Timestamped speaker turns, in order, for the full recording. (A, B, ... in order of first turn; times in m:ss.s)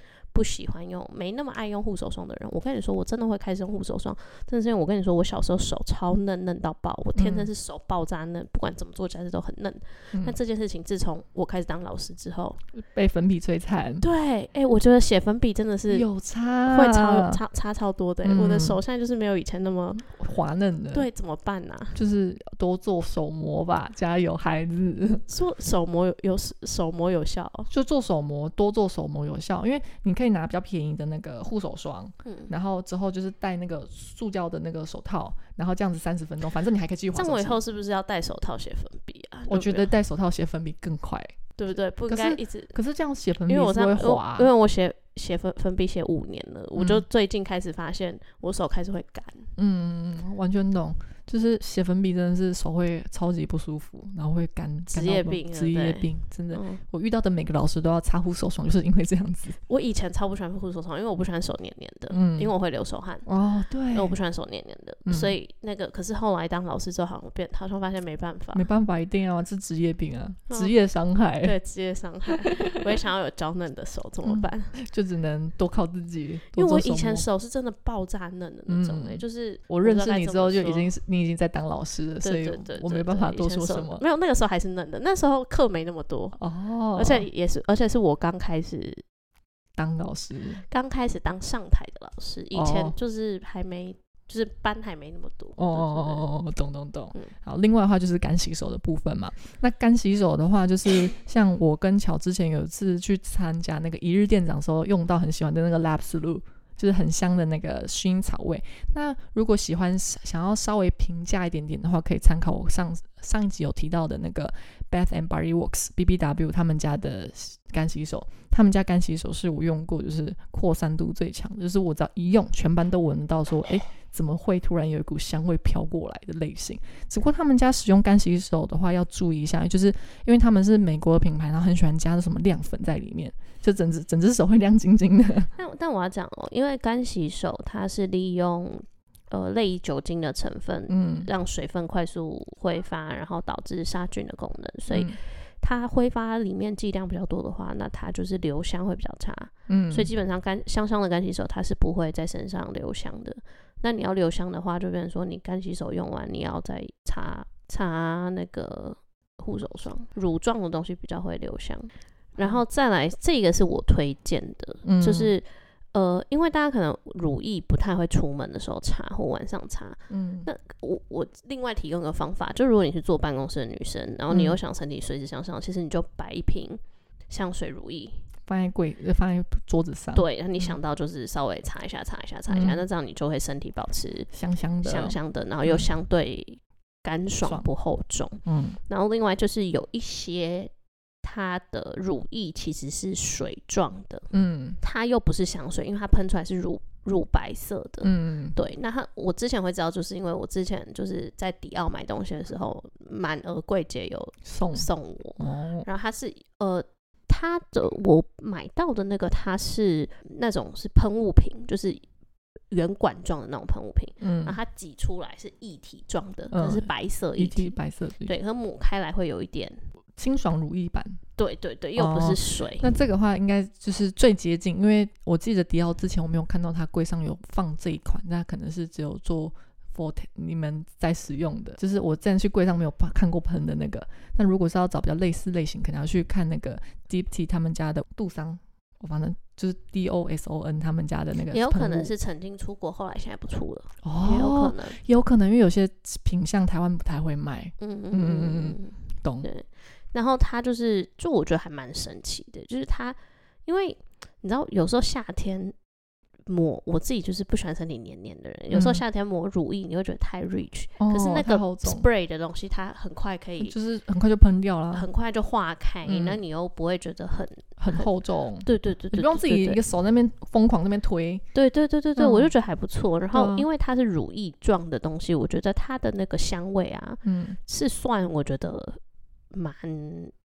0:00.3-0:12.6 A
0:07.2-0:07.5 B
0:12.7-0:14.0 B
0:14.0-0:16.1 A
0:15.9-0:17.4 B
0:16.7-0:20.1 A
0:18.2-0:18.8 B
0:20.1-0:21.1 B
0:20.9-0:22.0 A
0:22.0-0:25.2 B
0:25.3-0:27.7 A
0:27.7-0:37.6 B
0:32.2-0:32.5 A
0:37.1-0:39.9 A
0:39.5-0:41.4 B
0:41.6-0:42.8 A
0:42.1-0:44.5 B
0:43.4-0:49.5 A
0:46.8-0:47.0 B
0:49.6-0:59.6 B
0:54.9-0:56.8 A
0:59.7-1:03.3 A
1:02.1-1:02.5 B
1:03.2-1:04.2 B
1:03.9-1:08.6 A
1:05.1-1:05.4 B
1:08.5-1:11.6 B
1:11.4-1:14.8 A
1:14.2-1:17.3 B
1:16.5-1:20.9 A
1:18.7-1:24.0 B
1:22.2-1:26.4 A
1:26.4-1:27.3 B
1:26.9-1:29.0 A
1:29.8-1:30.6 B
1:30.7-1:36.3 A
1:32.5-1:33.0 B
1:35.6-2:15.5 B
2:15.6-2:58.3 A
2:20.9-2:21.3 B
2:24.9-2:25.2 B
2:29.7-2:30.1 B
2:44.8-2:45.3 B
2:50.1-2:50.5 B
2:54.3-2:54.6 B
2:58.5-3:00.8 B
3:00.1-3:04.3 A
3:02.5-3:02.8 B
3:04.3-3:05.9 B
3:04.8-3:10.7 A
3:07.4-3:07.7 B
3:08.4-3:08.8 B
3:11.2-3:32.0 A
3:14.3-3:14.8 B
3:18.0-3:18.6 B
3:24.4-3:25.9 B
3:32.7-3:39.8 A
3:34.2-3:34.6 B
3:36.5-3:38.4 B
3:40.2-3:41.2 B
3:41.4-3:43.0 A
3:42.0-4:02.1 B
4:01.5-4:05.0 A
4:04.0-4:09.5 B
4:07.8-4:15.7 A
4:16.5-4:23.8 A
4:18.7-4:19.0 B
4:21.0-4:22.1 B
4:23.6-4:25.1 B
4:24.9-4:28.1 A
4:26.0-4:26.4 B
4:27.8-4:31.4 B
4:28.6-4:29.8 A
4:31.5-4:39.0 A
4:32.2-4:32.5 B
4:33.3-4:33.7 B
4:37.2-4:37.6 B
4:39.5-4:40.3 A